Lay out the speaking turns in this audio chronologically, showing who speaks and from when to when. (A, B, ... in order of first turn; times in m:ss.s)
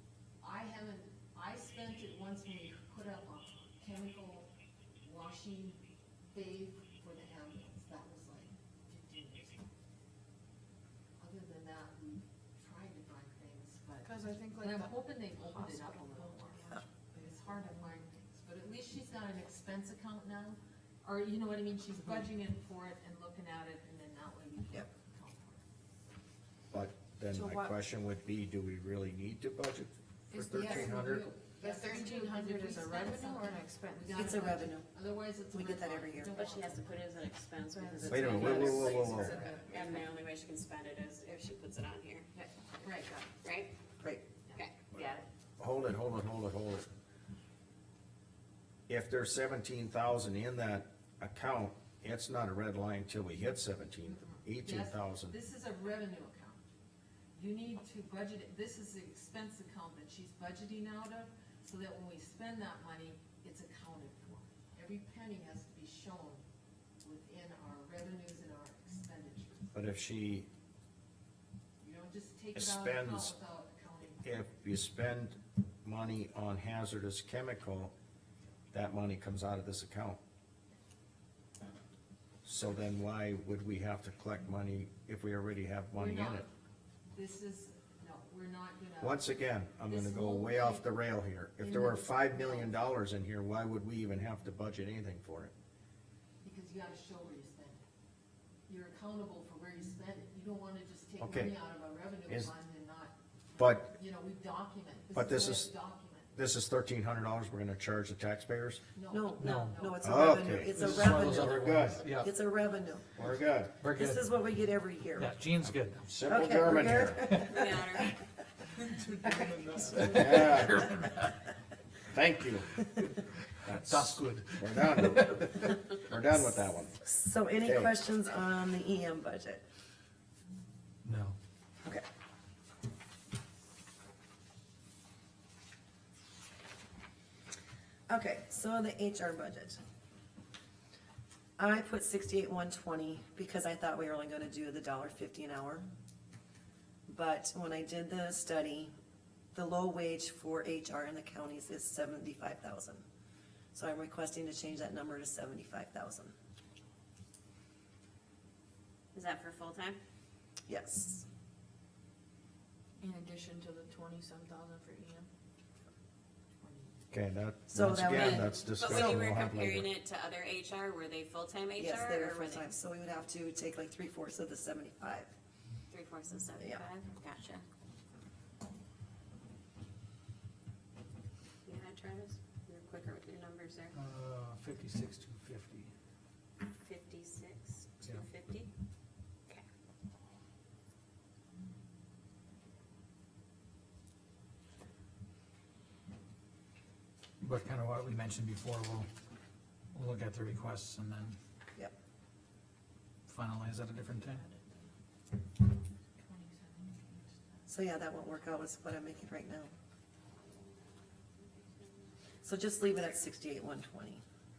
0:00.4-0:04.5 A
0:05.0-0:05.8 A
0:06.3-0:09.6 A
0:11.2-0:25.6 A
0:14.0-0:17.9 B
0:26.7-0:31.2 C
0:27.3-0:27.7 B
0:30.3-0:37.0 A
0:31.6-0:34.4 B
0:34.1-0:34.9 D
0:35.5-0:36.4 D
0:36.3-0:42.3 E
0:37.7-0:40.0 B
0:38.0-0:39.4 C
0:38.3-0:39.6 A
0:42.8-0:43.2 A
0:43.4-0:43.7 E
0:44.5-0:45.2 E
0:44.9-0:46.9 C
0:48.9-0:55.4 C
0:54.0-0:56.6 A
0:57.4-1:06.4 A
1:07.0-1:09.7 A
1:09.7-1:10.5 C
1:11.8-1:14.2 A
1:12.5-1:13.3 C
1:14.2-1:17.9 C
1:18.7-1:20.2 C
1:22.4-1:26.5 C
1:26.0-1:26.5 A
1:27.1-1:29.2 A
1:29.0-1:35.5 C
1:29.9-1:30.8 A
1:31.6-1:32.7 A
1:36.4-1:37.8 A
1:38.7-1:46.4 A
1:41.2-1:41.5 C
1:43.6-1:43.9 C
1:45.1-1:45.7 C
1:46.4-1:48.8 C
1:48.9-1:50.4 A
1:49.1-1:53.1 D
1:49.4-1:49.8 F
1:50.0-1:52.0 C
1:50.7-1:52.3 F
1:53.2-1:53.8 C
1:53.8-1:54.3 F
1:53.9-1:55.4 D
1:55.2-1:56.1 F
1:56.0-1:57.2 C
1:56.2-1:58.0 D
1:56.9-1:57.7 F
1:57.4-1:58.1 E
1:58.8-2:01.4 F
2:00.0-2:01.0 C
2:02.1-2:03.0 C
2:03.6-2:05.4 F
2:03.6-2:07.0 C
2:07.0-2:09.6 D
2:07.6-2:07.9 C
2:11.0-2:11.4 F
2:18.1-2:19.8 D
2:21.6-2:25.8 D
2:27.1-2:28.9 D
2:29.5-2:33.0 D
2:33.7-2:36.3 D
2:39.1-2:40.0 E
2:40.7-2:41.2 D
2:43.0-2:45.3 B
2:46.6-2:47.0 A
2:47.1-2:49.9 C
2:47.7-2:48.6 D
2:47.8-2:48.1 F
2:48.7-2:52.6 E
2:51.8-2:55.3 D
2:55.9-2:57.6 E
2:56.6-2:56.8 D
3:01.6-3:03.9 E
3:03.9-3:05.9 F
3:06.8-3:08.7 E
3:17.4-3:19.1 F
3:19.9-3:21.4 F
3:23.3-3:24.4 F
3:26.3-3:27.0 B
3:27.7-3:29.7 D
3:32.4-3:34.2 D